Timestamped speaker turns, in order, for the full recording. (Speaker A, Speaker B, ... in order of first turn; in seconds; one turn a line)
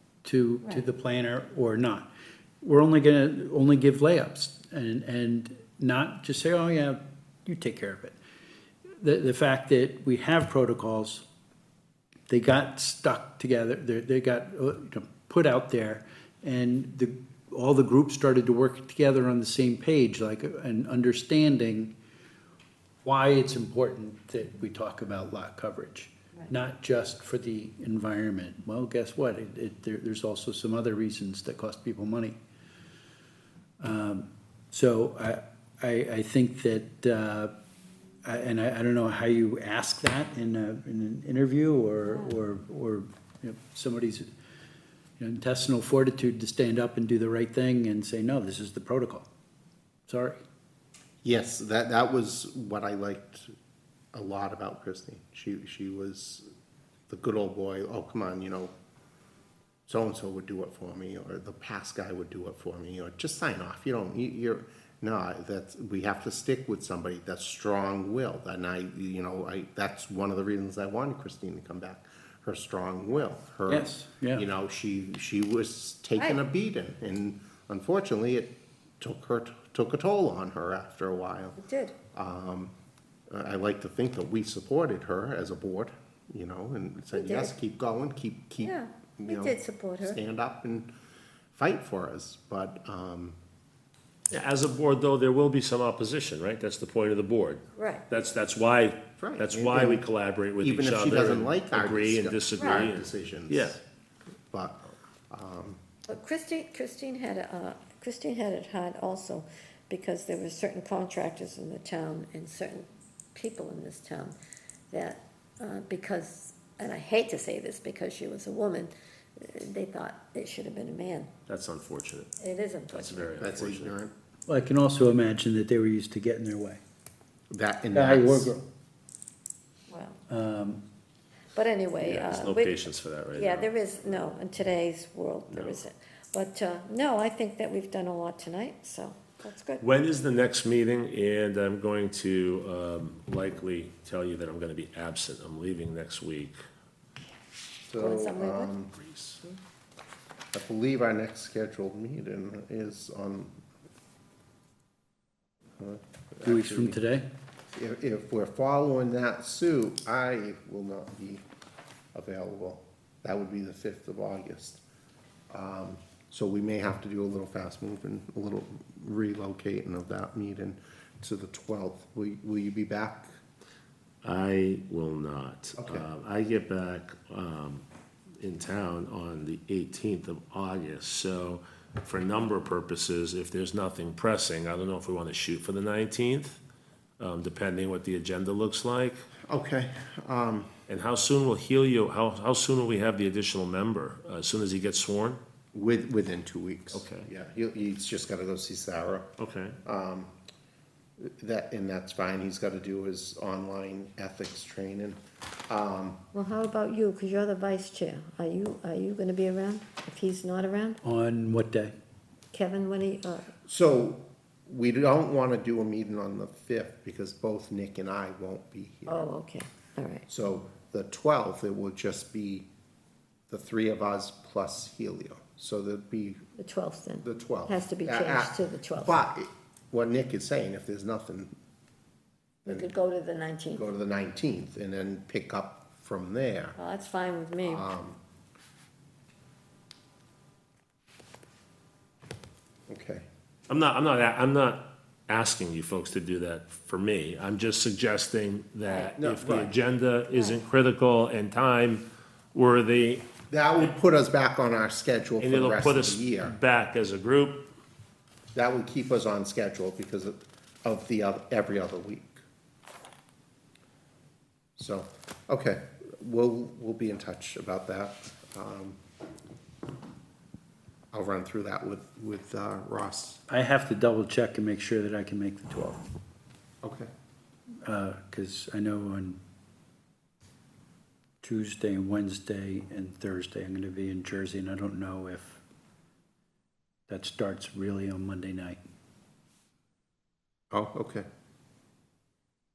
Speaker A: 0.2-2.1
Speaker A: 2.6-8.2
Speaker A: 9.0-11.2
Speaker A: 12.3-21.9
Speaker A: 23.0-32.4
Speaker A: 33.8-37.5
Speaker A: 38.2-44.3
Speaker B: 42.1-42.3
Speaker A: 45.2-49.3
Speaker A: 50.1-50.4
Speaker C: 51.2-53.5
Speaker C: 54.1-56.5
Speaker C: 57.1-58.7
Speaker C: 59.9-81.6
Speaker A: 73.7-74.5
Speaker B: 76.2-76.4
Speaker B: 81.6-82.0
Speaker C: 82.1-82.7
Speaker C: 83.3-90.9
Speaker B: 87.1-87.5
Speaker B: 88.6-90.2
Speaker C: 91.5-93.4
Speaker D: 94.3-103.8
Speaker B: 97.8-98.1
Speaker C: 99.2-100.0
Speaker C: 100.6-103.8
Speaker C: 104.5-105.8
Speaker B: 106.1-114.4
Speaker B: 114.9-121.3
Speaker D: 121.5-122.3
Speaker B: 122.4-123.4
Speaker D: 122.9-124.0
Speaker C: 123.4-124.1
Speaker A: 124.5-126.8
Speaker C: 127.5-128.5
Speaker A: 127.9-128.6
Speaker B: 129.9-130.2
Speaker A: 130.3-130.8
Speaker B: 131.6-132.8
Speaker D: 132.0-134.3
Speaker B: 133.3-139.8
Speaker D: 135.5-135.8
Speaker D: 139.8-146.6
Speaker C: 147.9-148.9
Speaker B: 148.0-148.7
Speaker D: 148.9-149.6
Speaker C: 150.5-153.6
Speaker C: 155.8-157.0
Speaker A: 156.4-157.3
Speaker C: 157.7-161.4
Speaker C: 162.1-164.8
Speaker C: 165.5-173.3
Speaker D: 174.2-177.9
Speaker C: 175.8-176.1
Speaker D: 178.4-186.6
Speaker D: 187.2-189.3
Speaker C: 189.5-190.7
Speaker D: 190.9-195.4
Speaker C: 195.7-199.3
Speaker D: 196.9-197.3
Speaker D: 199.4-199.8
Speaker C: 199.8-200.3
Speaker C: 201.2-206.2
Speaker B: 206.3-211.0
Speaker A: 211.0-211.9
Speaker B: 212.5-213.5
Speaker C: 213.7-219.3
Speaker B: 219.1-220.2
Speaker C: 220.3-222.7
Speaker C: 223.5-226.4
Speaker B: 226.6-229.2
Speaker C: 227.2-231.5
Speaker B: 232.7-233.8
Speaker C: 232.7-232.9
Speaker C: 233.8-236.8
Speaker B: 236.8-237.9
Speaker C: 237.6-238.2
Speaker C: 242.9-243.3
Speaker D: 243.7-253.3
Speaker B: 248.8-249.2
Speaker C: 249.2-249.7
Speaker B: 250.3-250.6
Speaker C: 253.5-256.6
Speaker D: 255.4-257.7
Speaker C: 258.5-262.4
Speaker C: 264.8-269.0
Speaker C: 271.1-273.4
Speaker A: 273.5-276.0
Speaker C: 276.8-277.1
Speaker A: 277.8-279.4
Speaker A: 281.4-285.6
Speaker A: 287.1-288.8
Speaker C: 290.7-291.3